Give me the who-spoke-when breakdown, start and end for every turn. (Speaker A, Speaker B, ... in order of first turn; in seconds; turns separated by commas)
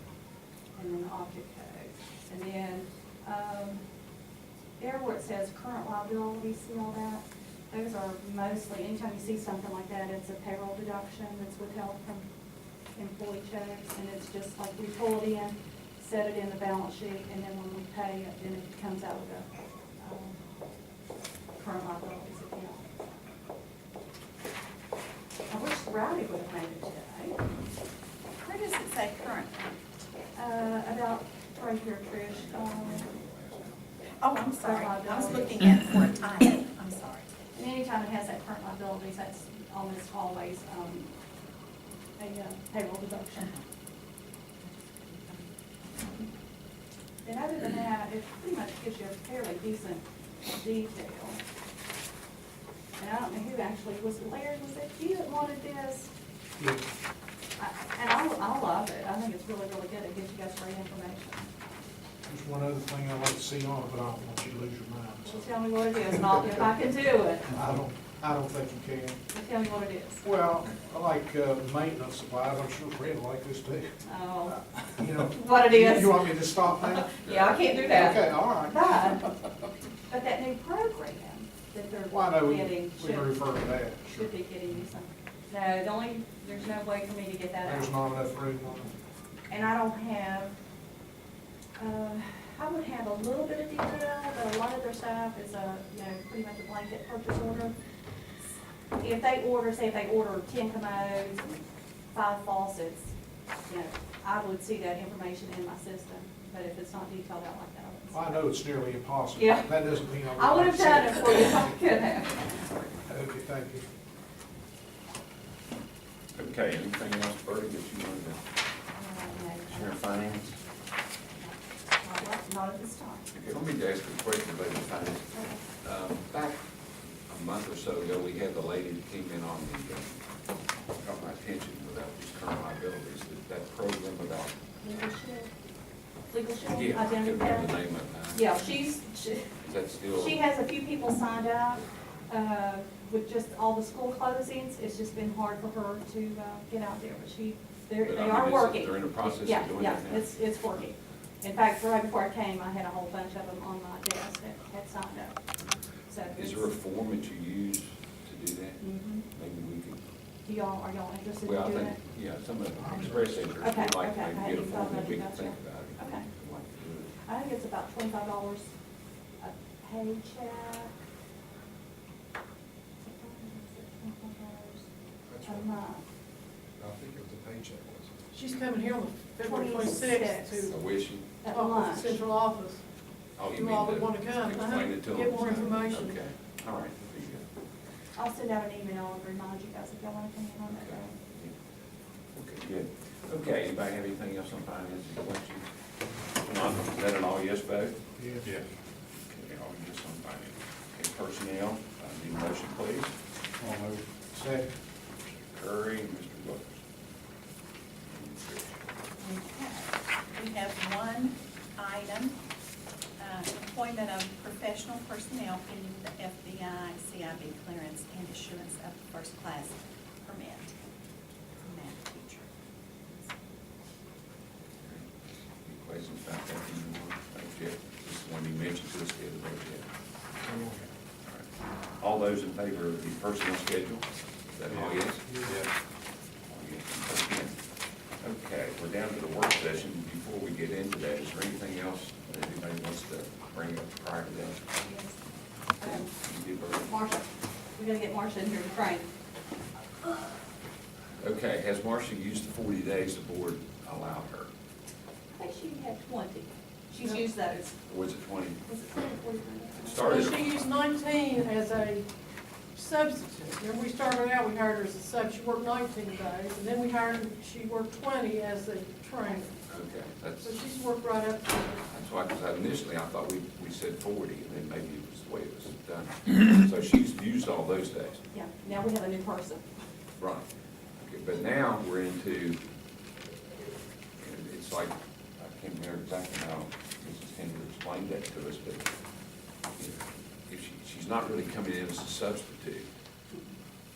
Speaker A: 0.8-3.8, Speaker A: 4.8-12.3, Speaker A: 12.9-20.4, Speaker A: 21.6-22.9, Speaker A: 25.5-27.4, Speaker B: 28.4-29.8, Speaker A: 30.4-33.1, Speaker C: 32.2-33.9, Speaker B: 34.2-37.3, Speaker A: 34.6-35.6, Speaker A: 37.5-41.1, Speaker A: 42.2-43.5, Speaker B: 44.7-45.5, Speaker A: 47.2-51.4, Speaker A: 53.0-56.1, Speaker A: 57.6-61.5, Speaker D: 62.3-65.5, Speaker A: 65.3-67.5, Speaker D: 66.1-66.8, Speaker D: 67.5-69.2, Speaker A: 69.3-70.2, Speaker D: 70.2-73.9, Speaker A: 74.0-74.6, Speaker D: 75.0-77.1, Speaker A: 75.2-79.3, Speaker C: 77.2-77.7, Speaker D: 77.7-79.1, Speaker A: 80.1-83.4, Speaker D: 82.1-84.3, Speaker A: 84.0-87.9, Speaker D: 87.7-88.9, Speaker A: 89.5-90.6, Speaker A: 91.8-97.7, Speaker A: 99.0-101.6, Speaker A: 102.1-108.5, Speaker D: 108.1-111.7, Speaker A: 109.3-109.7, Speaker A: 110.3-112.7, Speaker D: 113.1-113.9, Speaker C: 116.3-118.4, Speaker A: 118.9-120.2, Speaker C: 119.7-120.6, Speaker A: 121.4-123.3, Speaker C: 123.3-126.6, Speaker A: 125.3-125.6, Speaker C: 127.3-130.2, Speaker C: 130.9-134.5, Speaker A: 134.8-135.5, Speaker A: 136.3-137.7, Speaker C: 136.7-138.5, Speaker A: 138.3-139.5, Speaker C: 139.6-140.4, Speaker A: 140.1-155.4, Speaker C: 148.0-150.3, Speaker A: 156.1-156.7, Speaker C: 156.3-160.0, Speaker A: 158.8-159.3, Speaker A: 160.4-162.0, Speaker C: 161.4-167.1, Speaker D: 162.8-163.2, Speaker A: 163.6-166.3, Speaker A: 167.2-168.7, Speaker A: 169.4-171.0, Speaker A: 173.0-174.9, Speaker E: 175.3-175.7, Speaker A: 175.4-176.0, Speaker E: 176.8-178.1, Speaker F: 178.3-180.8, Speaker A: 179.4-182.2, Speaker C: 180.7-181.4, Speaker F: 181.5-182.8, Speaker C: 183.4-187.4, Speaker F: 183.4-186.2, Speaker A: 188.2-191.2, Speaker C: 190.7-191.6, Speaker C: 192.3-195.7, Speaker C: 196.4-198.1, Speaker D: 198.2-198.5, Speaker C: 199.3-203.1, Speaker D: 203.6-204.7, Speaker C: 205.2-206.8, Speaker C: 208.1-208.8, Speaker B: 209.2-212.4, Speaker B: 213.2-220.7, Speaker B: 221.7-222.5, Speaker C: 224.8-225.1, Speaker C: 225.6-229.9, Speaker D: 230.4-230.8, Speaker C: 231.3-235.3, Speaker E: 234.7-235.7, Speaker D: 235.3-235.6, Speaker C: 236.5-237.5, Speaker C: 238.2-244.7, Speaker A: 245.8-246.1, Speaker C: 245.8-246.9, Speaker A: 246.9-249.1, Speaker C: 251.2-254.5, Speaker A: 255.3-257.8, Speaker C: 257.9-258.6, Speaker A: 258.7-260.3, Speaker C: 259.8-260.5, Speaker F: 260.1-262.1, Speaker F: 262.8-269.5, Speaker C: 269.6-270.6, Speaker F: 270.4-271.7, Speaker C: 271.9-278.2, Speaker A: 278.3-279.7, Speaker C: 280.2-282.6, Speaker C: 284.2-288.9, Speaker C: 289.8-292.9, Speaker A: 293.3-293.6